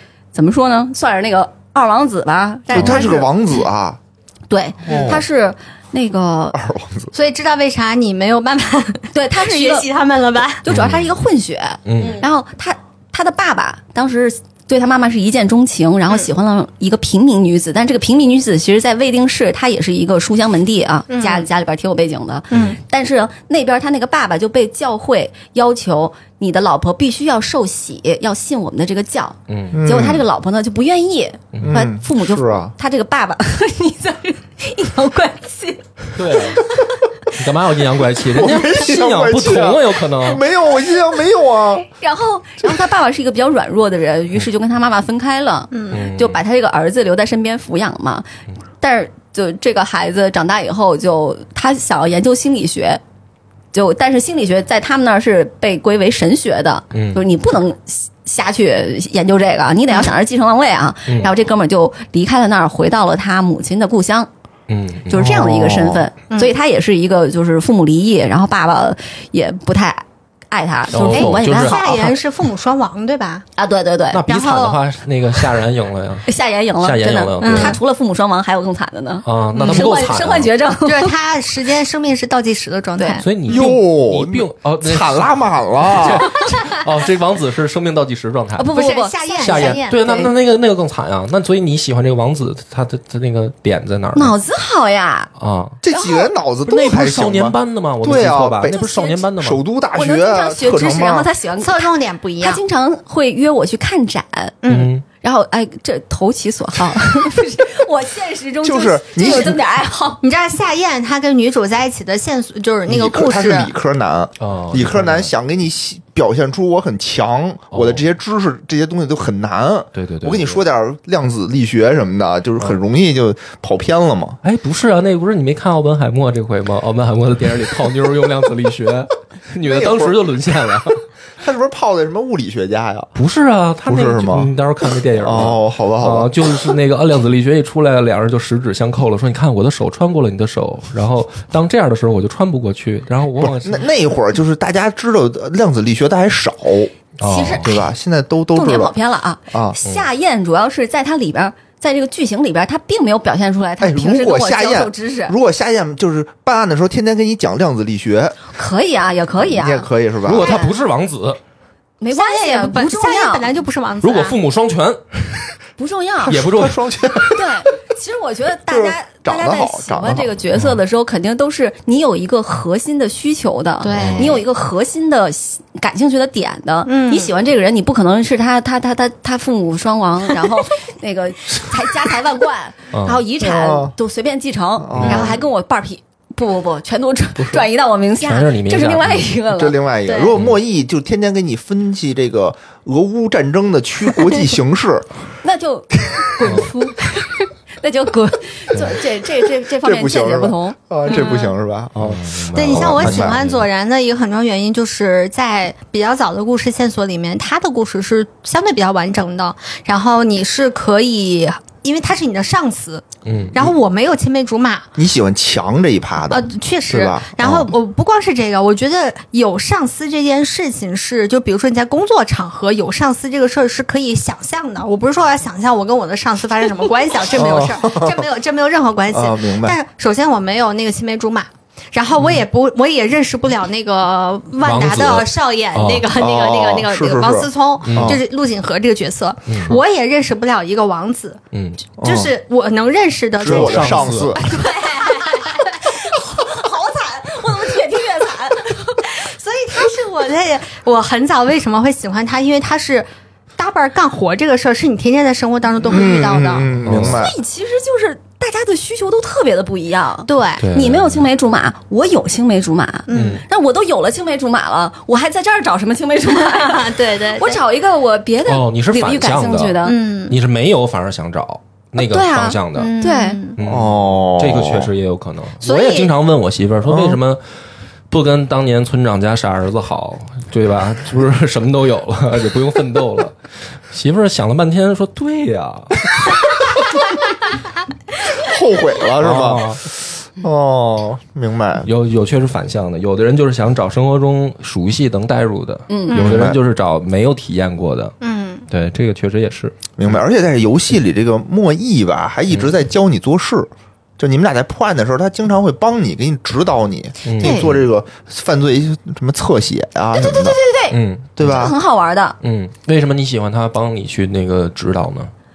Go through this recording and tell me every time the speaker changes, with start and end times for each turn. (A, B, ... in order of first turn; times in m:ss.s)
0:00.3-0:03.3 A
0:02.7-0:03.2 B
0:02.7-0:04.0 C
0:04.5-0:06.6 A
0:04.9-0:05.2 C
0:04.9-0:05.2 B
0:06.5-0:07.1 C
0:07.1-0:10.6 B
0:09.1-0:09.9 A
0:10.6-0:35.8 A
0:10.7-0:11.2 D
0:11.9-0:12.2 D
0:21.1-0:21.5 B
0:22.5-0:22.8 B
0:29.5-0:29.8 D
0:29.7-0:30.2 C
0:31.5-0:31.8 D
0:31.6-0:32.7 C
0:36.2-0:36.7 D
0:37.3-0:40.4 D
0:38.3-0:41.9 C
0:42.0-0:48.3 A
0:45.7-0:46.0 B
0:45.9-0:46.4 D
0:48.8-0:53.0 A
0:53.7-1:04.3 A
0:56.9-0:57.2 D
1:04.7-1:05.2 D
1:05.1-1:11.9 A
1:05.1-1:06.1 C
1:06.3-1:06.6 B
1:10.9-1:12.2 D
1:11.1-1:13.4 B
1:13.6-1:14.2 A
1:14.1-1:16.3 D
1:14.3-1:14.8 B
1:16.3-1:21.2 A
1:16.8-1:17.8 D
1:17.4-1:17.8 B
1:19.2-1:20.5 D
1:19.6-1:19.9 B
1:20.9-1:23.3 B
1:23.0-1:23.2 A
1:23.2-1:28.7 D
1:23.5-1:26.4 C
1:28.6-1:30.3 A
1:28.7-1:30.0 B
1:29.4-1:34.4 D
1:34.2-1:35.3 A
1:35.4-1:35.8 D
1:35.8-1:38.9 C
1:35.9-1:36.3 A
1:36.7-1:39.6 D
1:38.7-1:39.2 A
1:39.4-1:41.3 C
1:39.9-1:44.6 A
1:41.6-1:42.6 B
1:44.6-1:44.9 B
1:44.7-1:45.0 D
1:45.2-1:50.2 A
1:48.6-1:49.6 C
1:49.2-1:49.6 B
1:50.2-1:53.7 B
1:52.9-2:04.4 C
1:54.4-1:55.3 D
1:57.7-1:58.0 D
2:00.0-2:00.6 D
2:04.4-2:11.0 D
2:09.7-2:10.2 C
2:11.4-2:13.1 C
2:13.2-2:23.9 D
2:13.9-2:14.5 C
2:15.2-2:16.7 C
2:23.4-2:26.9 C
2:27.2-2:27.8 D
2:27.2-2:27.8 A
2:27.6-2:28.9 C
2:28.5-2:35.4 A
2:29.5-2:29.8 C
2:33.8-2:38.4 C
2:38.5-2:40.7 A
2:39.4-2:40.6 C
2:40.2-2:41.4 D
2:42.0-2:43.5 A
2:42.1-2:44.4 B
2:44.0-2:45.5 D
2:45.8-2:46.4 A
2:46.2-2:47.6 C
2:46.3-2:47.0 D
2:47.3-3:10.3 A
2:48.7-2:50.3 C
2:50.5-2:50.8 D
2:53.8-2:54.4 B
2:53.9-2:54.4 D
2:56.9-2:57.3 B
3:02.9-3:03.2 D
3:03.4-3:04.0 C
3:04.8-3:05.4 C
3:04.9-3:05.4 D
3:08.2-3:09.4 D
3:09.5-3:15.1 C
3:15.4-3:21.4 A
3:19.8-3:23.4 C
3:21.1-3:21.5 B
3:22.0-3:23.7 D
3:22.5-3:34.9 B
3:33.2-3:33.6 D
3:35.0-3:37.7 C
3:36.3-4:01.4 B
3:47.3-3:48.2 C
3:49.1-3:49.8 C
3:54.6-3:56.1 D
3:56.1-3:58.2 C
3:57.8-3:58.2 D
3:59.5-3:59.8 D
4:01.5-4:01.8 D
4:02.0-4:06.1 B
4:02.0-4:02.3 C
4:03.4-4:04.4 C
4:03.4-4:04.4 D
4:04.6-4:09.1 A
4:09.0-4:16.7 B
4:15.8-4:17.4 C
4:16.8-4:17.2 D
4:17.0-4:30.0 A
4:20.3-4:20.7 B
4:20.6-4:21.3 D
4:23.1-4:23.4 B
4:23.1-4:23.4 D
4:26.4-4:27.6 B
4:28.5-4:33.0 D
4:29.8-4:30.4 B
4:32.0-4:33.4 A
4:32.8-4:33.6 B
4:33.6-4:37.4 D
4:33.6-4:34.9 C
4:35.6-4:36.1 B
4:36.8-4:37.2 C
4:38.1-4:43.4 D
4:43.9-4:46.4 D
4:48.3-4:51.9 C
4:49.2-4:49.8 D
4:51.8-4:58.2 D
4:55.9-4:56.2 A
4:56.1-4:56.4 B
4:56.2-4:56.6 C
4:58.2-4:58.7 B
4:58.7-4:59.8 D
5:00.0-5:10.6 C
5:07.2-5:07.6 D
5:07.4-5:07.8 A
5:10.2-5:12.4 A
5:10.9-5:11.7 D
5:11.4-5:11.8 C
5:12.4-5:15.3 D